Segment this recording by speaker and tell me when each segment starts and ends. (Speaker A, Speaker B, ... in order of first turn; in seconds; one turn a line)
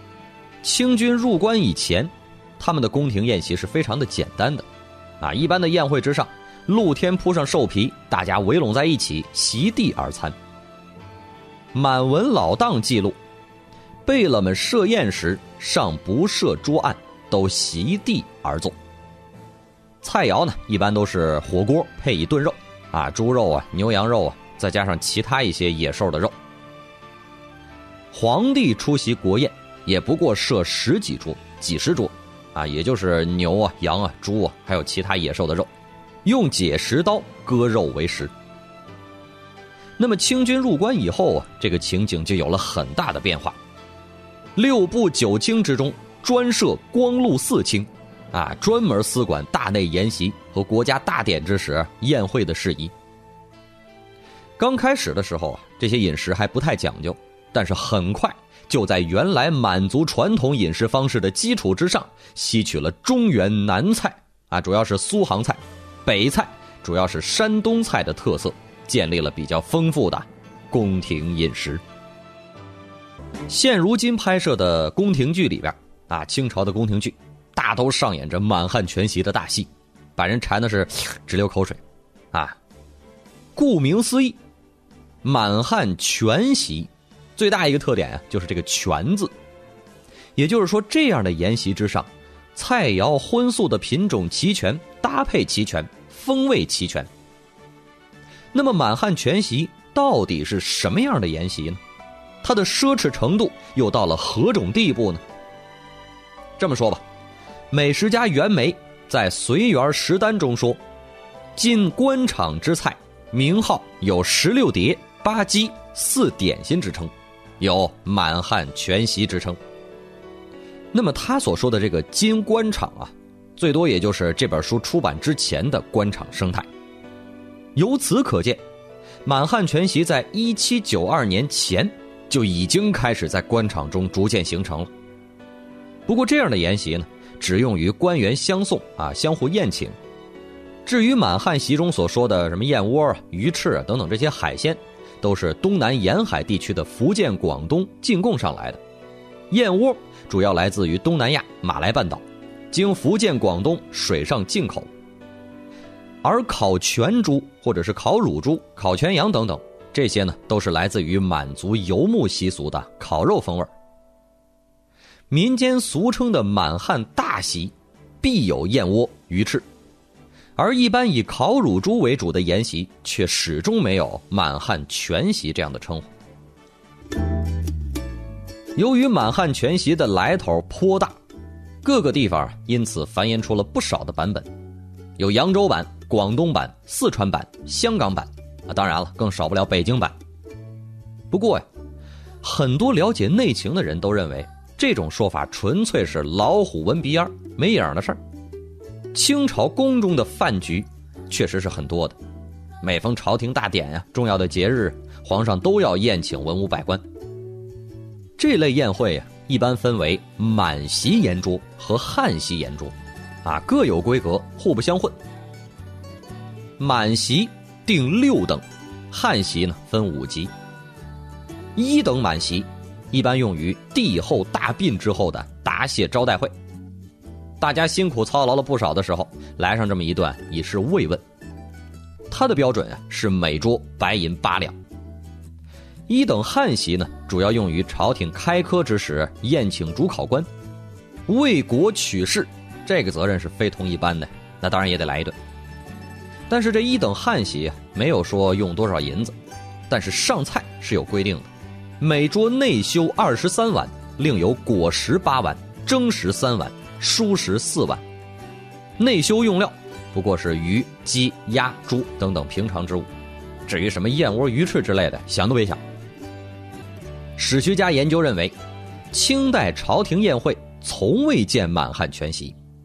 Speaker A: 0.6-4.7
Speaker A: 5.2-10.4
Speaker A: 11.7-13.2
Speaker A: 14.1-18.8
Speaker A: 20.0-26.3
Speaker A: 28.1-35.7
Speaker A: 36.2-38.3
Speaker A: 40.0-43.6
Speaker A: 44.6-52.9
Speaker A: 54.6-71.8
Speaker A: 73.5-81.8
Speaker A: 83.6-84.4
Speaker A: 85.2-89.3
Speaker A: 90.4-97.1
Speaker A: 98.5-101.8
Speaker A: 102.4-105.2
Speaker A: 106.6-107.0
Speaker A: 107.7-110.8
Speaker A: 111.6-119.6
Speaker A: 120.9-126.7
Speaker A: 127.8-128.6
Speaker A: 129.2-134.9
Speaker A: 136.1-140.0
Speaker A: 140.8-148.8
Speaker A: 149.5-154.9
Speaker A: 156.2-163.7
Speaker A: 165.3-169.7
Speaker A: 170.6-176.1
Speaker A: 178.8-181.2
Speaker A: 181.8-184.5
Speaker A: 185.2-190.2
Speaker A: 191.3-191.7
Speaker A: 192.4-198.2
Speaker A: 199.1-202.2
Speaker A: 202.8-207.0
Speaker A: 208.4-215.2
Speaker A: 216.8-220.5
Speaker A: 221.8-226.5
Speaker A: 227.6-231.2
Speaker A: 232.3-234.8
Speaker A: 236.1-240.5
Speaker A: 241.3-245.4
Speaker A: 246.5-249.4
Speaker A: 249.9-251.5
Speaker A: 252.0-258.0
Speaker A: 259.0-263.1
Speaker A: 263.7-265.8
Speaker A: 267.4-268.6
Speaker A: 269.1-272.6